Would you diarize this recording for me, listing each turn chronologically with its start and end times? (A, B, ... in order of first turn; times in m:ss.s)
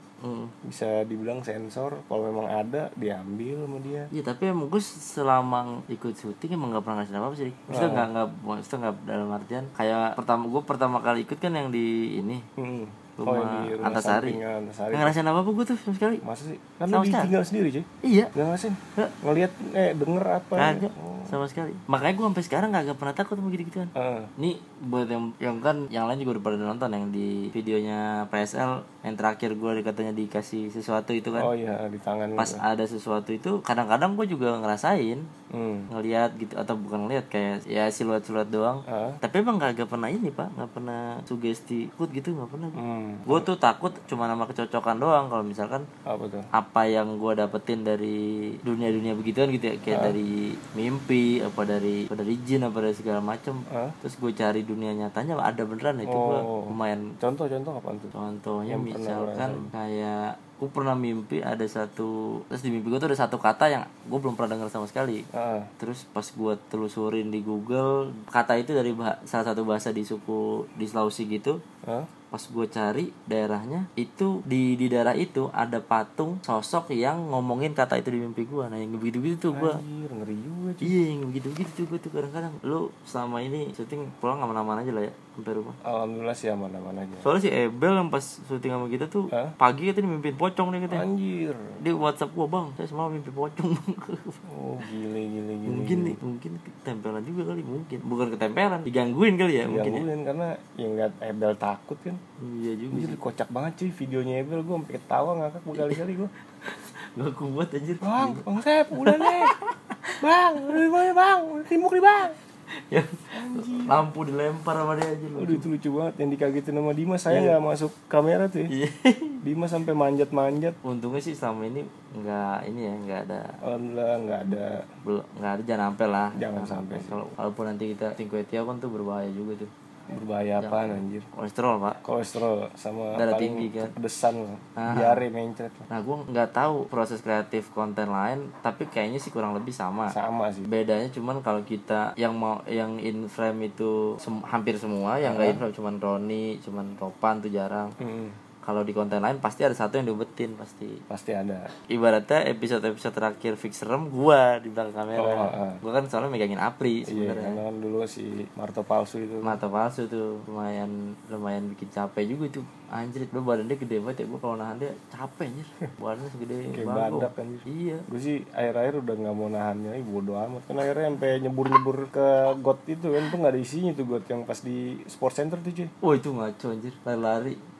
0:00.2-0:00.5 A
0:00.6-0:04.1 B
0:04.1-0:12.4 A
0:07.7-0:08.1 B
0:12.6-0:15.2 B
0:13.2-0:14.4 A
0:14.9-0:16.2 A
0:16.2-0:21.4 B
0:16.9-0:17.3 A
0:18.0-0:18.3 A
0:20.6-0:31.5 A
0:23.9-0:24.3 B
0:31.4-0:32.6 B
0:32.4-0:35.3 A
0:35.5-0:35.9 B
0:35.9-0:45.8 A
0:38.9-0:39.2 B
0:42.8-0:43.5 B
0:46.0-0:46.4 B
0:46.5-0:57.1 A
0:49.9-0:50.2 B
0:53.7-0:54.0 B
0:56.1-0:58.1 B
0:58.1-1:05.2 A
0:58.7-0:59.7 B
1:05.3-1:05.7 B
1:05.8-1:11.6 A
1:12.3-1:19.8 A
1:19.5-1:20.9 B
1:20.8-1:25.8 A
1:25.8-1:27.3 B
1:27.2-1:31.0 A
1:30.9-1:31.8 B
1:31.8-1:34.4 A
1:34.5-1:36.2 B
1:35.6-1:40.0 A
1:39.6-1:42.2 B
1:42.4-1:43.2 A
1:42.9-1:46.3 B
1:45.7-1:46.0 A
1:46.6-1:50.8 A
1:48.0-1:49.5 B
1:50.2-1:52.4 B
1:52.8-1:55.6 A
1:53.3-1:54.0 B
1:55.4-1:58.7 B
1:57.3-1:57.6 A
1:58.7-1:59.4 A
1:59.4-2:00.8 B
2:00.8-2:03.6 A
2:03.6-2:04.8 B
2:05.0-2:09.7 A
2:06.4-2:07.2 B
2:10.1-2:11.2 B
2:10.6-2:12.0 A
2:12.0-2:15.9 B
2:13.1-2:13.9 A
2:14.8-2:15.2 A
2:15.9-2:20.2 A
2:20.1-2:20.7 B
2:20.7-2:27.9 A
2:25.2-2:25.6 B
2:28.0-2:28.4 B
2:28.6-2:31.0 A
2:31.1-2:31.7 B
2:31.9-2:37.6 A
2:35.2-2:35.8 B
2:37.1-2:39.6 B
2:39.4-2:48.0 A
2:46.7-2:55.9 B
2:56.0-2:57.6 A